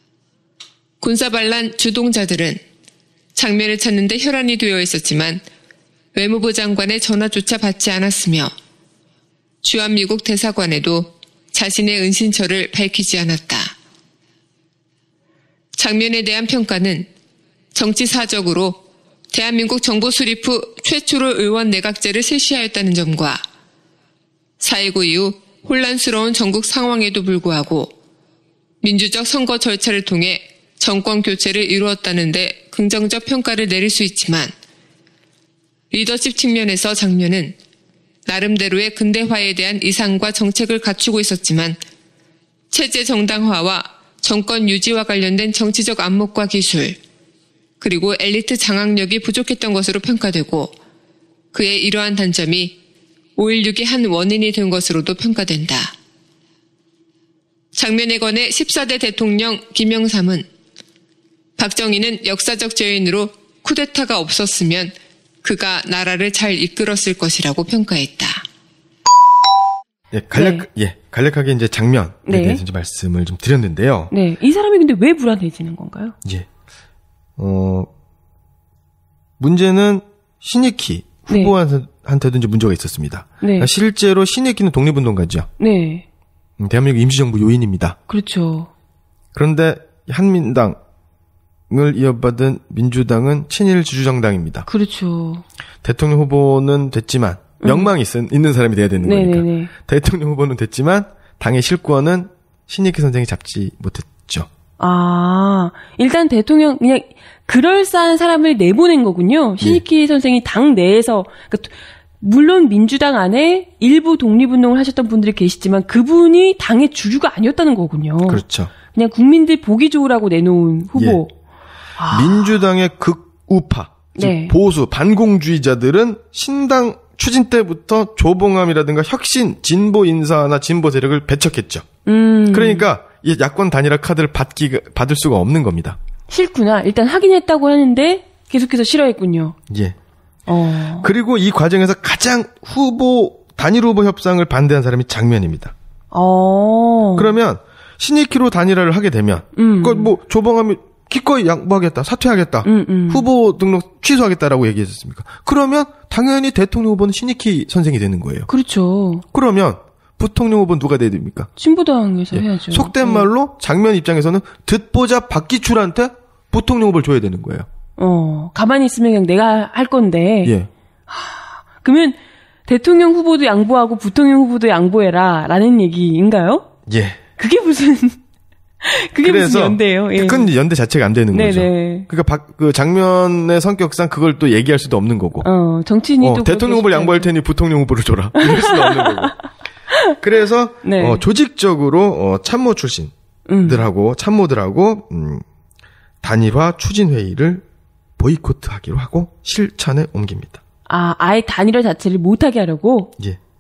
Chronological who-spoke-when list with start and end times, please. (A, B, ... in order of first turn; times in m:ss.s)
0:01.0-0:02.6 A
0:03.4-0:05.4 A
0:06.1-0:08.5 A
0:09.6-0:13.8 A
0:15.8-0:17.1 A
0:17.8-0:18.8 A
0:19.3-0:23.4 A
0:24.6-0:27.9 A
0:28.8-0:34.5 A
0:35.9-0:37.6 A
0:38.3-0:41.8 A
0:42.7-0:47.0 A
0:47.8-0:50.8 A
0:51.5-0:52.8 A
0:53.4-0:56.0 A
0:57.7-1:00.5 A
1:01.6-1:08.4 A
1:10.1-1:14.1 B
1:10.3-1:10.7 C
1:12.3-1:12.6 C
1:14.1-1:16.2 C
1:17.4-1:17.9 B
1:19.4-1:25.5 B
1:23.4-1:23.7 C
1:25.6-1:26.0 C
1:26.6-1:28.0 B
1:28.1-1:28.7 C
1:29.3-1:30.8 B
1:31.7-1:34.7 B
1:34.7-1:35.4 C
1:35.8-1:44.5 B
1:37.6-1:37.9 C
1:39.0-1:39.7 C
1:44.8-2:01.3 C
1:58.3-1:58.7 B
2:01.0-2:01.2 B
2:02.0-2:02.6 C
2:02.1-2:11.9 B
2:04.2-2:04.6 C
2:12.0-2:12.9 C
2:12.5-2:16.0 B
2:16.3-2:19.6 C
2:19.7-2:20.0 B
2:20.5-2:21.1 C
2:21.0-2:25.7 B
2:26.1-2:27.3 C
2:27.2-2:38.5 B
2:29.6-2:30.1 C
2:32.6-2:33.3 C
2:38.5-2:39.2 C
2:39.3-2:41.5 B
2:41.6-2:43.3 C
2:42.3-2:47.7 B
2:48.0-2:50.5 C
2:50.4-2:50.7 B
2:51.1-2:56.7 C
2:56.9-2:57.2 B
2:57.4-2:58.2 C
2:58.8-3:00.5 C
2:59.2-3:05.5 B
3:01.3-3:02.1 C
3:05.4-3:07.3 C
3:06.2-3:09.4 B
3:08.4-3:09.4 C
3:09.9-3:10.2 C
3:10.1-3:13.1 B
3:10.8-3:11.2 C
3:13.5-3:13.8 C
3:13.6-3:15.4 B
3:16.2-3:17.6 B
3:18.2-3:20.6 B
3:20.9-3:23.1 C